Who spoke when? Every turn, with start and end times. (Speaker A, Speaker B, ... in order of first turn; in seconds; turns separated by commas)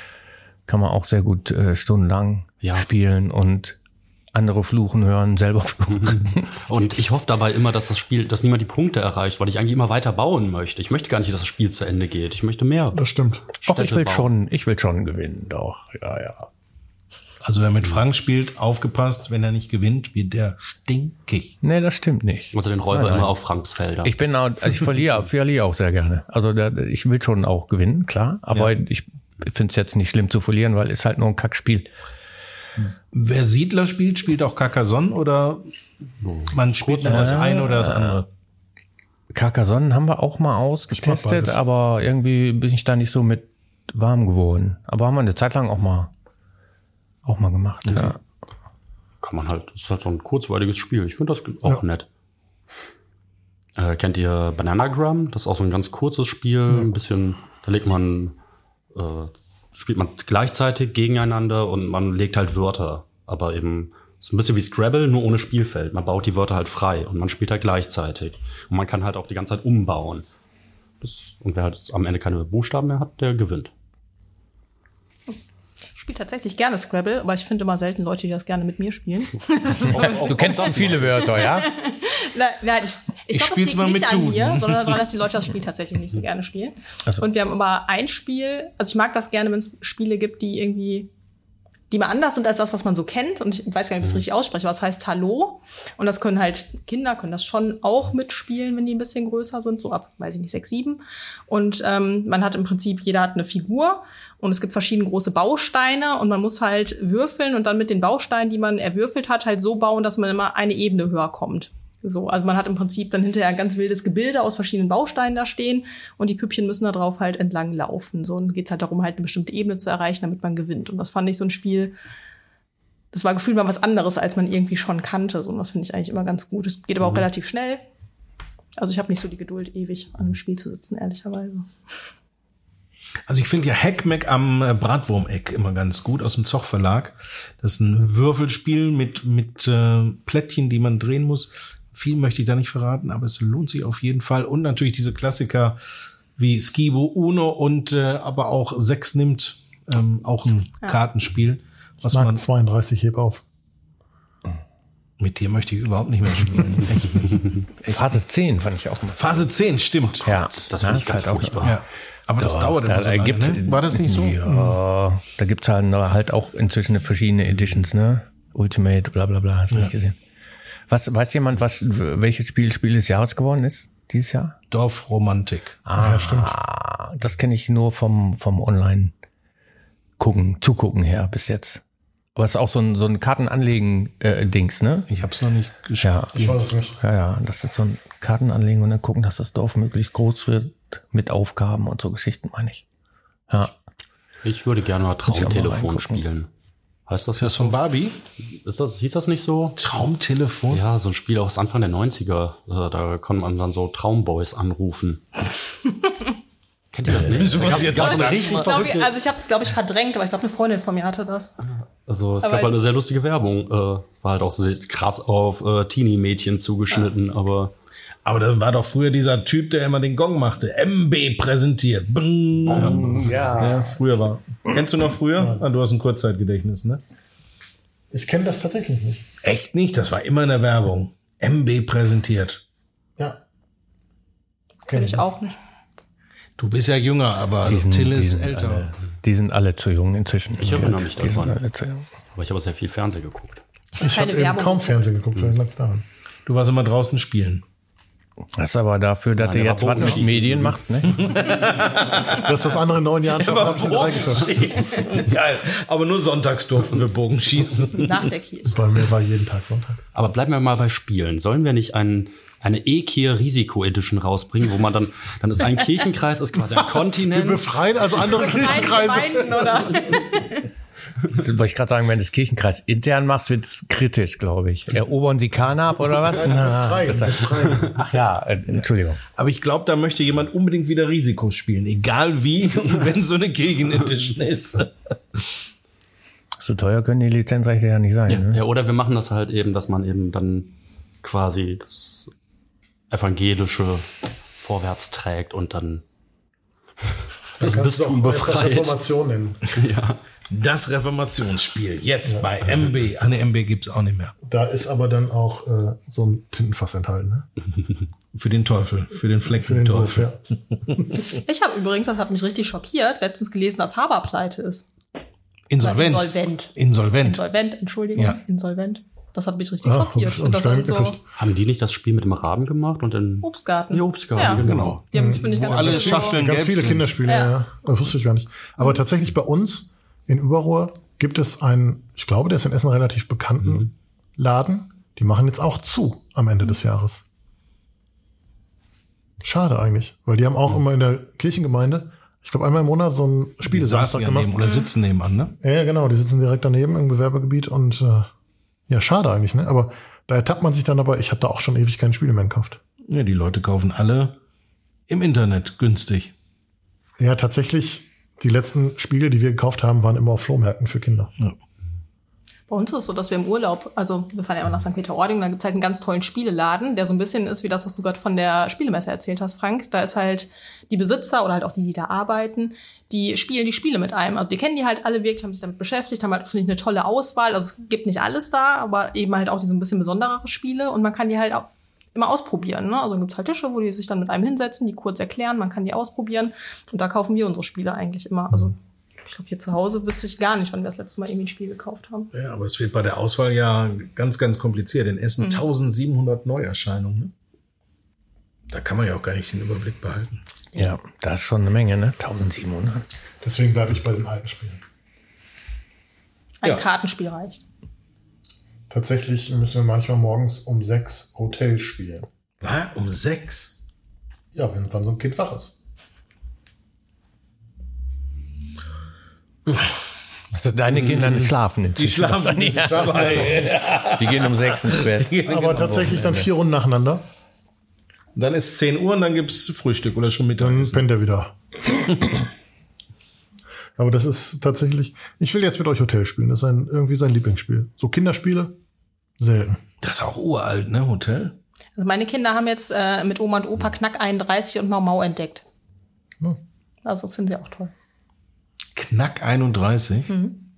Speaker A: 0.7-3.8, Speaker B: 2.6-2.9, Speaker A: 4.3-6.5, Speaker B: 6.0-13.0, Speaker C: 12.9-13.4, Speaker B: 13.6-14.3, Speaker A: 13.6-16.5, Speaker D: 17.4-21.6, Speaker A: 21.6-23.4, Speaker B: 22.5-24.1, Speaker A: 24.0-31.9, Speaker D: 33.1-35.7, Speaker B: 36.2-37.5, Speaker D: 36.5-38.3, Speaker A: 37.0-38.2, Speaker A: 39.3-46.1, Speaker C: 40.9-41.6, Speaker A: 47.2-48.2, Speaker B: 49.2-52.1, Speaker B: 53.8-58.4, Speaker B: 58.9-70.3, Speaker B: 71.0-73.7, Speaker E: 76.0-91.1, Speaker B: 79.8-81.3, Speaker A: 80.0-81.7, Speaker D: 83.3-85.0, Speaker E: 91.9-122.0, Speaker E: 123.1-127.8, Speaker E: 128.8-131.7, Speaker D: 133.3-145.8, Speaker D: 146.4-152.4, Speaker C: 152.1-153.4, Speaker D: 155.2-158.0, Speaker A: 157.9-159.5, Speaker D: 159.2-160.3, Speaker A: 160.2-161.8, Speaker B: 160.5-161.8, Speaker D: 161.6-164.4, Speaker A: 162.4-170.2, Speaker A: 170.9-174.6, Speaker D: 174.7-175.8, Speaker A: 175.9-179.1, Speaker C: 175.9-176.6, Speaker A: 180.2-181.8, Speaker A: 182.3-185.1, Speaker D: 185.1-186.6, Speaker A: 186.0-186.4, Speaker C: 186.3-187.0, Speaker A: 187.0-192.8, Speaker A: 193.5-193.7, Speaker B: 194.4-196.5, Speaker A: 195.2-196.2, Speaker B: 197.1-197.8, Speaker D: 197.4-198.2, Speaker B: 198.5-199.8, Speaker D: 199.8-200.8, Speaker B: 200.7-205.2, Speaker B: 206.9-209.1, Speaker D: 207.1-209.1, Speaker E: 207.7-211.5, Speaker B: 211.7-217.7, Speaker E: 212.4-212.8, Speaker D: 218.2-227.0, Speaker C: 222.7-224.0, Speaker A: 222.7-223.9, Speaker C: 225.4-225.6, Speaker C: 228.1-229.3, Speaker D: 229.4-232.6, Speaker C: 234.9-235.3, Speaker E: 234.9-235.6, Speaker D: 236.6-238.9, Speaker A: 237.6-242.1, Speaker B: 240.6-241.6, Speaker B: 242.3-243.6, Speaker C: 243.9-246.1, Speaker E: 244.0-245.0, Speaker D: 246.5-247.6, Speaker A: 248.6-251.3, Speaker B: 249.4-250.8, Speaker D: 251.0-252.6, Speaker C: 252.3-254.6, Speaker D: 253.3-258.2, Speaker E: 258.0-258.8, Speaker C: 258.7-260.0, Speaker B: 260.1-267.7, Speaker C: 267.3-269.7, Speaker E: 268.3-270.7, Speaker A: 271.3-279.2, Speaker C: 276.3-278.0, Speaker D: 278.7-285.4, Speaker A: 286.6-288.6, Speaker B: 288.3-292.3, Speaker B: 293.1-296.0, Speaker B: 297.6-299.0, Speaker C: 297.6-299.6, Speaker B: 299.7-300.2, Speaker D: 300.5-304.4, Speaker C: 304.4-307.5, Speaker D: 308.3-310.3, Speaker C: 309.5-310.4, Speaker E: 311.3-314.9, Speaker D: 315.7-317.4, Speaker E: 315.8-321.2, Speaker C: 319.8-321.2, Speaker B: 321.4-325.0, Speaker E: 323.4-326.4, Speaker D: 324.4-327.1, Speaker C: 325.1-337.3, Speaker E: 327.2-327.6, Speaker C: 339.4-344.8, Speaker D: 343.7-345.6, Speaker C: 345.6-348.3, Speaker C: 348.9-352.8, Speaker D: 353.1-354.4, Speaker D: 355.1-356.3, Speaker C: 357.2-361.3, Speaker E: 362.7-388.8, Speaker E: 389.3-392.3, Speaker D: 392.3-397.3, Speaker D: 398.7-400.4, Speaker A: 400.7-403.1, Speaker C: 403.4-404.8, Speaker E: 406.6-407.6, Speaker C: 408.9-412.3, Speaker D: 412.6-413.8, Speaker C: 414.5-415.8, Speaker A: 420.6-426.5, Speaker D: 421.1-426.2, Speaker C: 422.8-423.9, Speaker C: 425.4-427.2, Speaker D: 428.4-431.0, Speaker C: 430.6-431.6, Speaker C: 434.0-438.8, Speaker C: 439.4-439.8, Speaker D: 440.0-441.6, Speaker E: 442.0-445.6, Speaker E: 447.1-447.9, Speaker D: 448.9-450.3, Speaker E: 450.3-450.6